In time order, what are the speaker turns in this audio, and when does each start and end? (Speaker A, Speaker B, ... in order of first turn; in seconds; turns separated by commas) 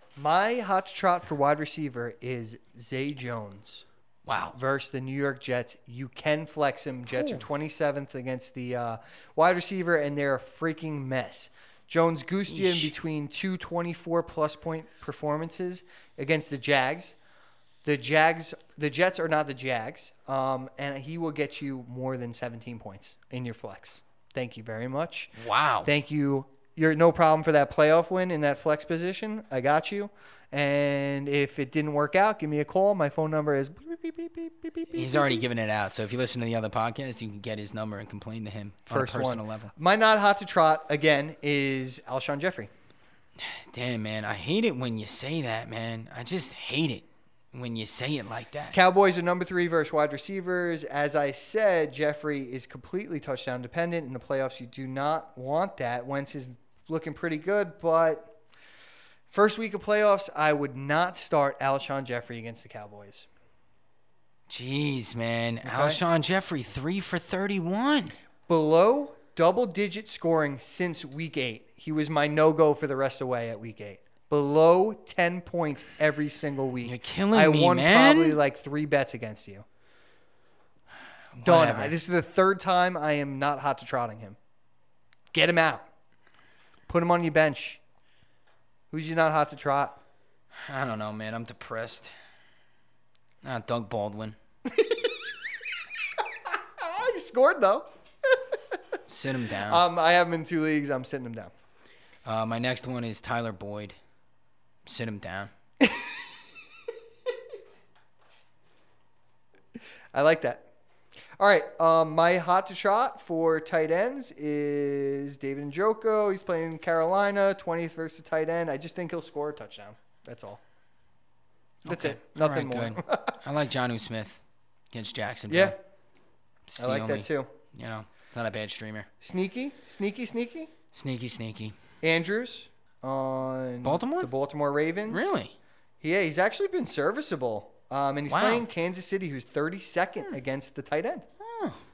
Speaker A: 0.2-3.8, Speaker B: 4.2-4.6, Speaker A: 4.5-17.1, Speaker B: 7.1-7.4, Speaker B: 12.5-12.9, Speaker A: 17.8-35.4, Speaker B: 25.4-25.9, Speaker B: 34.9-39.7, Speaker A: 38.9-42.7, Speaker B: 43.4-48.8, Speaker A: 48.7-58.3, Speaker A: 59.3-63.3, Speaker B: 64.5-68.1, Speaker A: 65.6-66.0, Speaker A: 68.5-79.7, Speaker B: 76.8-78.4, Speaker B: 81.3-81.9, Speaker A: 81.4-84.4, Speaker A: 85.3-85.8, Speaker A: 86.9-87.8, Speaker A: 88.9-90.0, Speaker B: 90.5-92.1, Speaker B: 93.4-94.4, Speaker A: 94.7-95.1, Speaker A: 96.5-98.4, Speaker B: 99.1-99.8, Speaker A: 99.7-101.5, Speaker B: 102.2-103.9, Speaker B: 104.8-105.5, Speaker A: 105.8-106.1, Speaker A: 110.1-110.6, Speaker A: 111.4-120.6, Speaker A: 121.8-123.3, Speaker B: 121.8-124.4, Speaker B: 124.9-125.7, Speaker A: 125.5-125.7, Speaker B: 126.7-129.1, Speaker A: 126.8-127.5, Speaker A: 129.2-130.7, Speaker B: 130.9-131.7, Speaker A: 132.0-135.3, Speaker B: 133.8-134.3, Speaker B: 135.1-135.5, Speaker A: 136.0-141.2, Speaker B: 138.3-138.6, Speaker B: 141.4-141.8